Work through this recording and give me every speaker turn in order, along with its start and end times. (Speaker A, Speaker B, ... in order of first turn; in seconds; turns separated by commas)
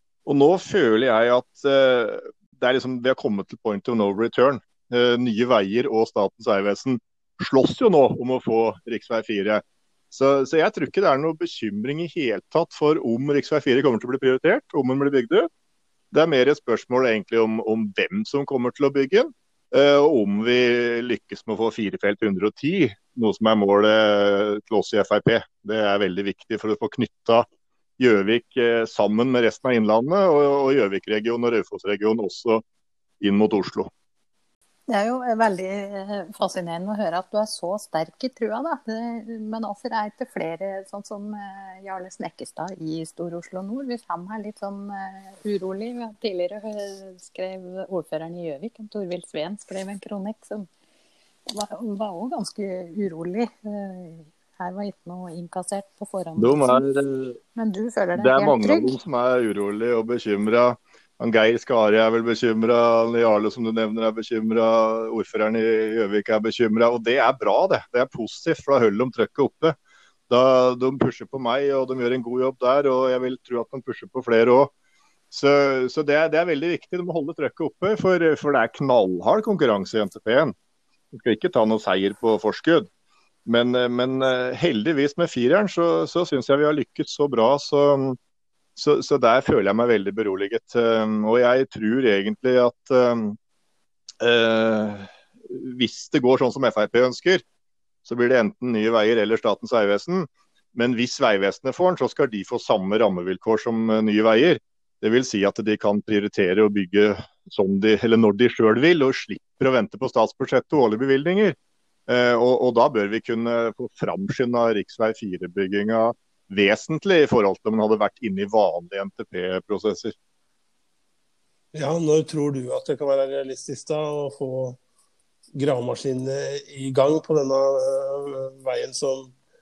Speaker A: 0.3-15.5, Speaker A: 16.1-27.5, Speaker A: 28.0-32.6, Speaker A: 33.2-33.9, Speaker B: 34.9-50.7, Speaker B: 51.5-56.9, Speaker A: 56.4-57.4, Speaker B: 57.5-59.0, Speaker A: 58.2-69.8, Speaker A: 70.3-74.7, Speaker A: 75.3-80.5, Speaker A: 81.1-82.9, Speaker A: 83.5-88.2, Speaker A: 88.8-93.4, Speaker A: 94.2-97.4, Speaker A: 98.1-111.6, Speaker A: 112.1-120.2, Speaker C: 121.7-124.8, Speaker C: 125.5-129.3